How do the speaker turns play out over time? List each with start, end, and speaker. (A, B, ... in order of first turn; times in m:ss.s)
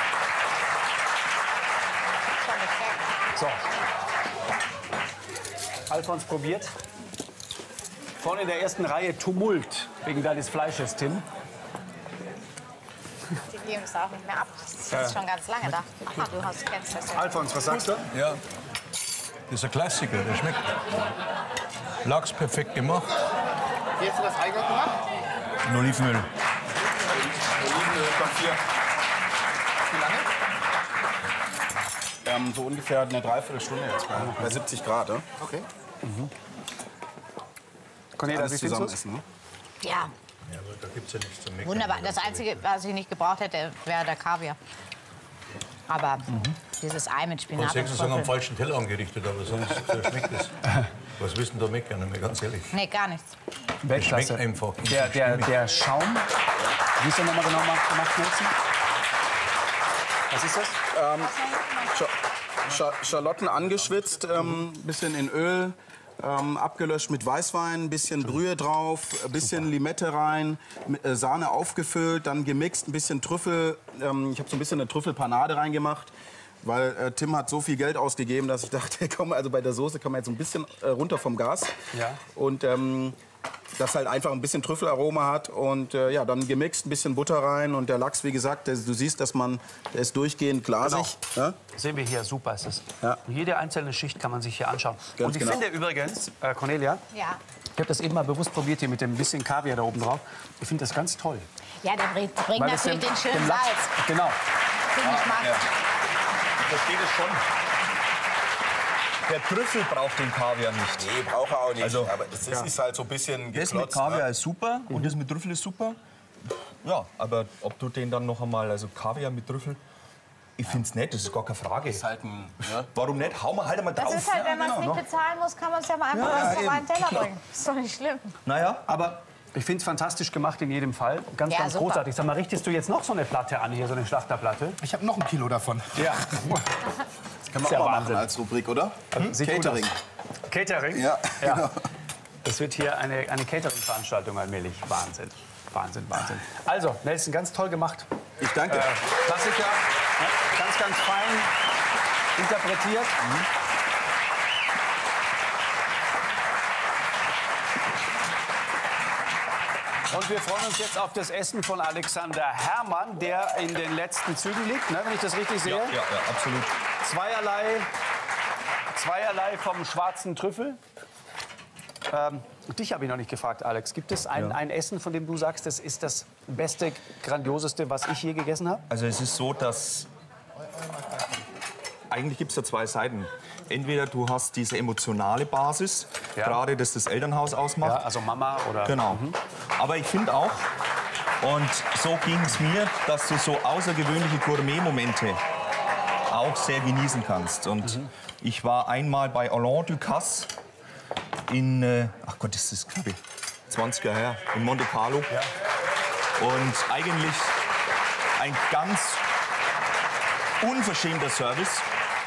0:02.4-0:03.0 A
0:03.4-0:03.6 B
0:05.9-0:06.7 B
0:08.2-0:11.2 B
0:13.5-0:17.4 A
0:14.9-0:15.2 B
0:17.1-0:18.1 B
0:17.7-0:18.4 C
0:19.5-0:20.9 C
0:22.0-0:23.1 C
0:24.0-0:25.0 D
0:25.6-0:26.3 C
0:27.4-0:28.6 E
0:29.9-0:30.3 D
0:32.2-0:35.2 E
0:34.2-0:34.4 B
0:35.4-0:35.7 D
0:36.0-0:36.3 B
0:38.2-0:39.0 B
0:38.3-0:39.2 E
0:39.8-0:40.1 A
0:40.5-0:42.5 C
0:41.6-0:44.6 A
0:45.9-0:48.3 A
0:47.6-0:50.6 C
0:51.2-0:52.7 C
0:52.7-0:53.3 A
0:53.8-0:56.3 B
0:53.9-0:55.6 C
0:57.0-0:58.5 B
1:00.3-1:00.8 B
1:00.9-1:16.1 E
1:16.6-1:21.7 E
1:21.9-1:22.2 B
1:22.3-1:23.2 E
1:23.7-1:31.6 E
1:30.8-1:31.1 B
1:31.7-1:37.0 B
1:35.2-1:35.6 E
1:37.1-1:37.4 A
1:37.8-1:41.5 B
1:41.8-1:43.9 A
1:42.5-1:44.4 B
1:44.9-1:45.6 A
1:45.0-1:45.6 F
1:46.6-1:47.4 F
1:49.2-1:51.1 F
1:51.0-1:54.2 E
1:51.8-1:52.1 F
1:53.5-1:56.0 F
1:56.8-1:59.8 F
2:00.6-2:02.0 F
2:01.9-2:02.9 E
2:02.9-2:05.0 F
2:04.0-2:08.4 A
2:04.3-2:05.0 E
2:06.1-2:07.0 F
2:06.2-2:06.6 E
2:08.4-2:08.8 F
2:08.9-2:14.8 B
2:11.5-2:12.0 A
2:14.8-2:16.2 D
2:15.9-2:16.9 B
2:17.5-2:19.9 E
2:17.6-2:18.3 B
2:19.1-2:19.9 B
2:20.5-2:21.6 B
2:20.9-2:21.8 E
2:22.4-2:28.1 B
2:28.4-2:28.9 E
2:28.7-2:31.5 B
2:32.4-2:33.2 B
2:40.1-2:46.0 B
2:45.6-2:46.7 F
2:47.0-2:47.9 B
2:48.9-2:50.8 B
2:52.1-2:58.8 B
2:58.9-3:00.1 F
3:00.6-3:01.4 D
3:02.1-3:08.1 F
3:07.8-3:09.4 B
3:08.8-3:10.7 F
3:11.4-3:15.4 F
3:16.3-3:20.5 F
3:21.5-3:25.3 F
3:26.4-3:27.6 F
3:28.4-3:29.2 F
3:30.6-3:31.9 F